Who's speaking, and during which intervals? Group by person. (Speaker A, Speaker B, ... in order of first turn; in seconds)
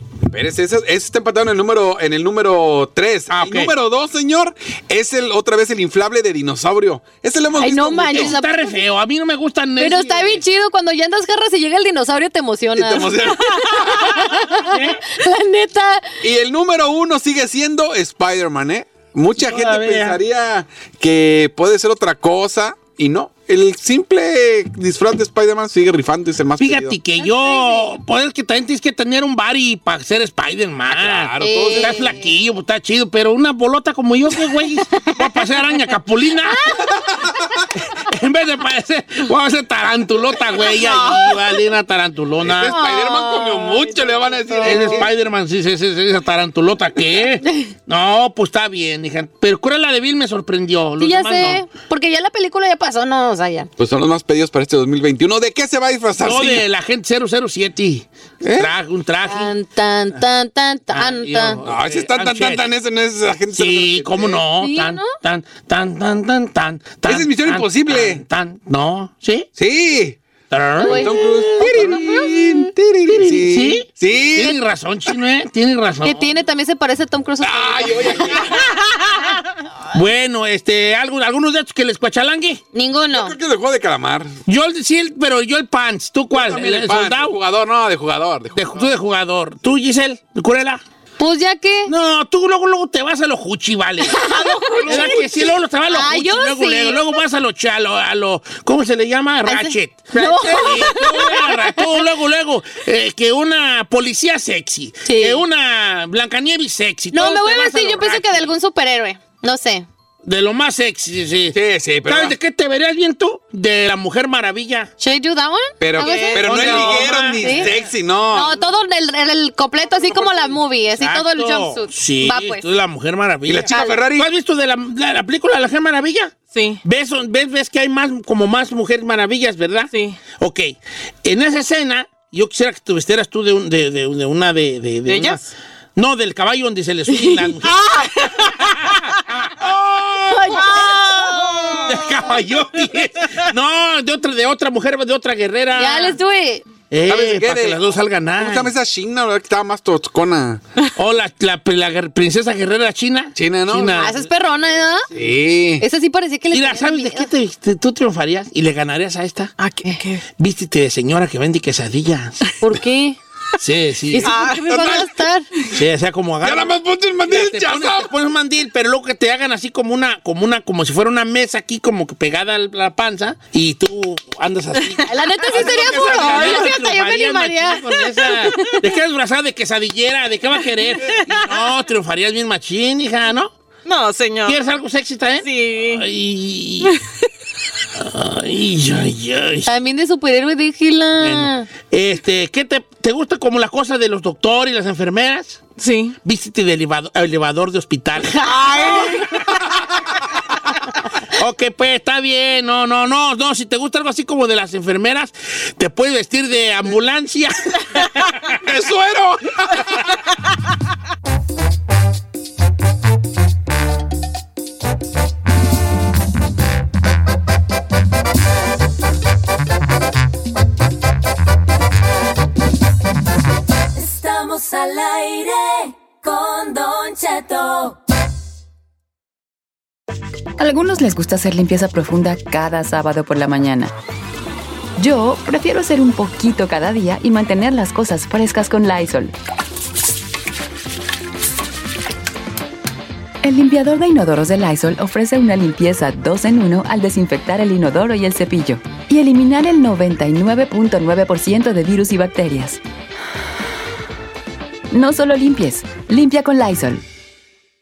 Speaker A: 0.2-8.3, 12.8-14.0, 16.2-27.0, 30.9-32.1, 42.4-45.1, 53.8-56.6, 58.4-58.7, 61.6-64.4, 67.0-68.2, 69.6-70.2, 70.8-74.6, 77.4-78.6, 83.1-84.4, 86.3-88.8, 94.8-95.2, 111.5-112.3, 115.8-118.5, 123.5-124.3, 147.1-147.8, 148.3-150.6, 153.3-154.0, 155.1-155.8, 164.7-165.1, 166.4-168.1, 208.6-210.0
Speaker B: 3.3-3.7, 8.0-10.4, 14.6-15.0, 19.3-20.2, 26.6-36.8, 37.8-42.8, 44.6-51.6, 56.2-59.5, 60.9-62.7, 63.5-69.5, 70.5-76.3, 78.3-79.0, 79.9-82.6, 84.5-87.4, 88.5-90.8, 91.9-94.3, 94.9-108.5, 110.2-114.9, 116.0-117.8, 119.8-137.8, 138.5-140.9, 141.8-146.2, 146.9-148.7, 150.9-154.2, 156.5-159.5, 160.4-162.4, 163.6-164.3, 165.7-183.5, 184.4-186.9, 187.9-189.7, 191.2-195.6, 196.2-199.5, 201.3-208.5
Speaker C: 7.6-8.7, 9.8-16.2, 27.2-27.9, 31.4-32.3, 34.9-35.4, 40.6-41.3, 42.6-45.1, 47.5-47.7, 51.0-53.7, 59.2-61.6, 64.5-65.1, 70.8-72.3, 76.0-78.5, 82.7-83.3, 91.2-91.9, 94.1-95.2, 95.9-97.2, 99.4-102.0, 105.0-105.4, 107.1-109.8, 115.0-117.7, 118.3-122.6, 123.7-124.0, 140.3-141.8, 145.8-146.7, 153.9-155.1, 155.8-157.3, 162.6-163.2, 164.1-165.5, 175.0-178.8, 189.7-191.7
Speaker D: 126.5-126.8, 129.9-130.2, 135.1-135.5, 137.1-138.4, 140.6-141.9, 159.6-160.2, 164.2-164.8, 176.2-176.6, 183.8-184.6, 185.4-186.1, 195.8-196.1
Speaker E: 223.9-228.0
Speaker F: 230.6-233.9, 235.0-239.3, 243.4-252.8, 254.9-257.0